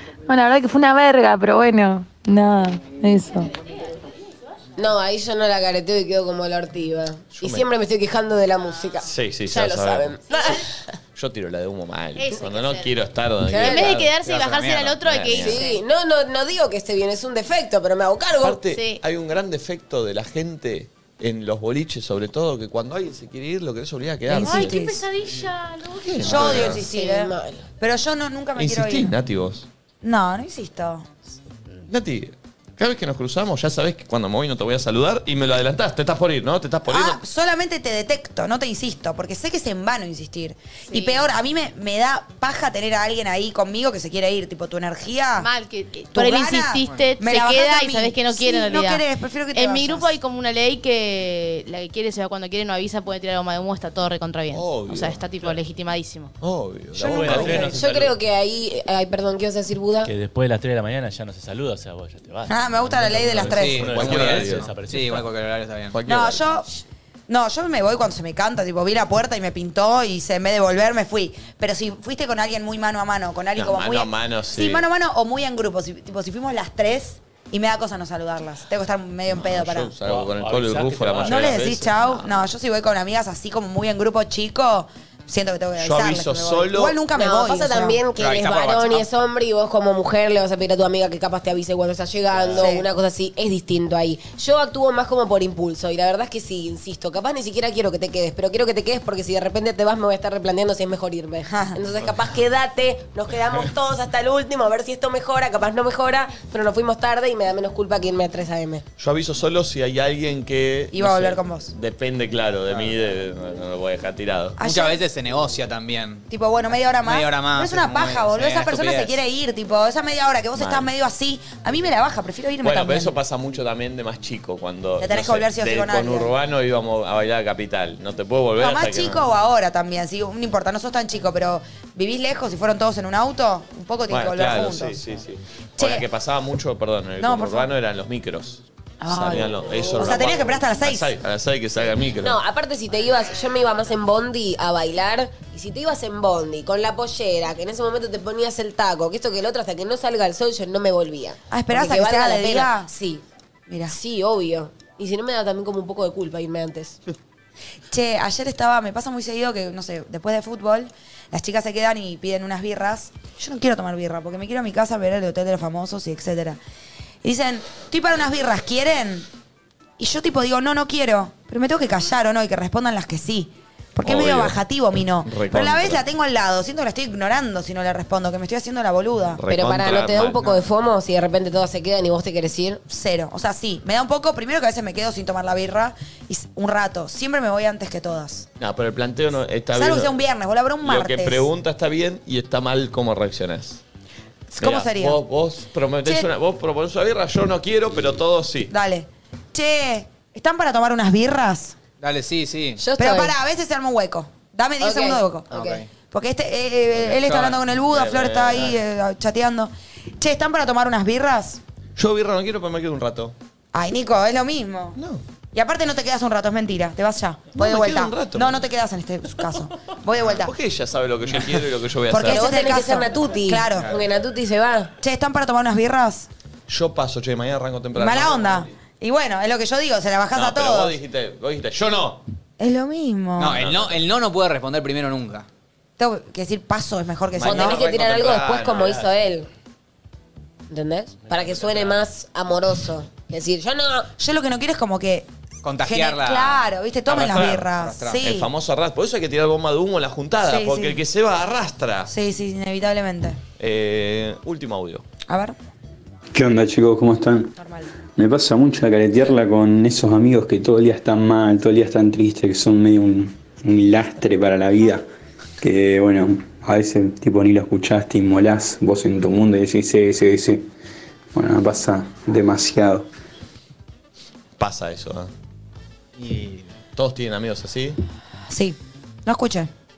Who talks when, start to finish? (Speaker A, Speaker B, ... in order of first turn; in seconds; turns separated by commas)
Speaker A: 0.3-3.5, Speaker B: 3.3-4.6, Speaker C: 4.8-10.8, Speaker D: 7.3-7.7, Speaker B: 8.6-9.1, Speaker D: 9.0-10.1, Speaker B: 10.3-10.6, Speaker D: 11.1-14.1, Speaker B: 12.2-12.9, Speaker C: 13.4-13.9, Speaker B: 13.6-15.8, Speaker E: 14.2-15.4, Speaker D: 14.9-15.6, Speaker C: 15.4-18.6, Speaker D: 18.4-24.8, Speaker B: 18.7-19.0, Speaker F: 24.3-25.1, Speaker B: 24.4-26.7, Speaker D: 25.9-26.8, Speaker F: 26.2-29.1, Speaker C: 26.6-27.6, Speaker D: 28.6-29.7, Speaker F: 30.0-31.1, Speaker D: 31.9-37.2, Speaker F: 36.9-45.5, Speaker B: 40.9-41.2, Speaker B: 45.4-56.3, Speaker F: 46.1-50.1, Speaker D: 54.5-55.3, Speaker D: 56.4-58.1, Speaker G: 56.9-58.1, Speaker C: 57.4-60.1, Speaker G: 60.0-65.3, Speaker F: 62.5-63.9, Speaker E: 63.4-65.9, Speaker D: 63.8-64.7, Speaker D: 65.9-66.6, Speaker F: 66.1-66.7, Speaker F: 67.3-79.9, Speaker D: 73.5-74.8, Speaker D: 79.3-82.3, Speaker G: 80.0-81.8, Speaker F: 81.2-88.0, Speaker D: 85.8-87.0, Speaker C: 87.1-108.8, Speaker E: 88.2-89.1, Speaker D: 92.3-92.6, Speaker F: 92.5-92.9, Speaker F: 101.5-101.8, Speaker D: 109.0-114.6, Speaker F: 110.9-111.7, Speaker E: 112.7-112.9, Speaker F: 114.6-115.0, Speaker E: 114.6-116.3, Speaker F: 116.3-123.1, Speaker E: 117.0-119.2, Speaker D: 120.5-120.9, Speaker D: 122.6-129.2, Speaker F: 125.0-126.3, Speaker F: 128.6-135.0, Speaker D: 134.1-142.4, Speaker F: 135.8-136.1, Speaker F: 137.2-137.7, Speaker F: 139.0-141.1, Speaker C: 139.9-140.2, Speaker C: 142.2-153.2, Speaker F: 151.5-152.9, Speaker F: 153.7-153.9, Speaker C: 153.9-157.0, Speaker F: 157.9-166.6, Speaker F: 167.2-169.3, Speaker F: 170.0-179.4, Speaker D: 174.0-174.6, Speaker D: 175.2-176.0, Speaker D: 179.4-180.6, Speaker C: 179.5-182.8, Speaker F: 182.9-188.5, Speaker D: 188.6-190.2, Speaker F: 189.7-191.5, Speaker D: 190.8-193.8, Speaker F: 194.5-195.2, Speaker D: 194.6-198.7, Speaker F: 198.7-201.8, Speaker E: 202.0-202.8, Speaker C: 202.8-203.3, Speaker F: 203.0-205.5, Speaker C: 204.8-205.8, Speaker E: 205.5-205.9, Speaker F: 206.1-211.6, Speaker E: 207.0-207.6, Speaker D: 207.9-208.8, Speaker D: 211.9-213.3, Speaker F: 213.7-215.0, Speaker D: 214.9-215.2, Speaker F: 215.5-220.5, Speaker D: 217.5-218.7, Speaker D: 220.2-222.6, Speaker F: 222.1-223.9, Speaker C: 222.2-224.9, Speaker F: 225.0-226.3, Speaker D: 226.7-228.7, Speaker F: 227.9-231.0, Speaker D: 230.3-232.2, Speaker F: 232.6-233.6, Speaker E: 233.4-235.4, Speaker D: 233.4-234.0, Speaker F: 236.0-237.8, Speaker D: 237.3-239.1, Speaker C: 237.4-239.5, Speaker C: 240.7-244.1, Speaker G: 241.2-242.0, Speaker F: 244.2-245.3, Speaker E: 245.6-248.2, Speaker F: 245.8-248.5, Speaker D: 248.2-252.1, Speaker F: 250.4-251.0, Speaker F: 252.1-253.4, Speaker D: 253.6-255.0, Speaker F: 255.3-255.6, Speaker H: 256.3-257.5, Speaker H: 258.1-265.0, Speaker H: 265.6-270.7, Speaker H: 271.3-273.1, Speaker D: 274.6-275.3, Speaker E: 276.2-276.7, Speaker D: 276.9-278.0, Speaker F: 278.5-279.7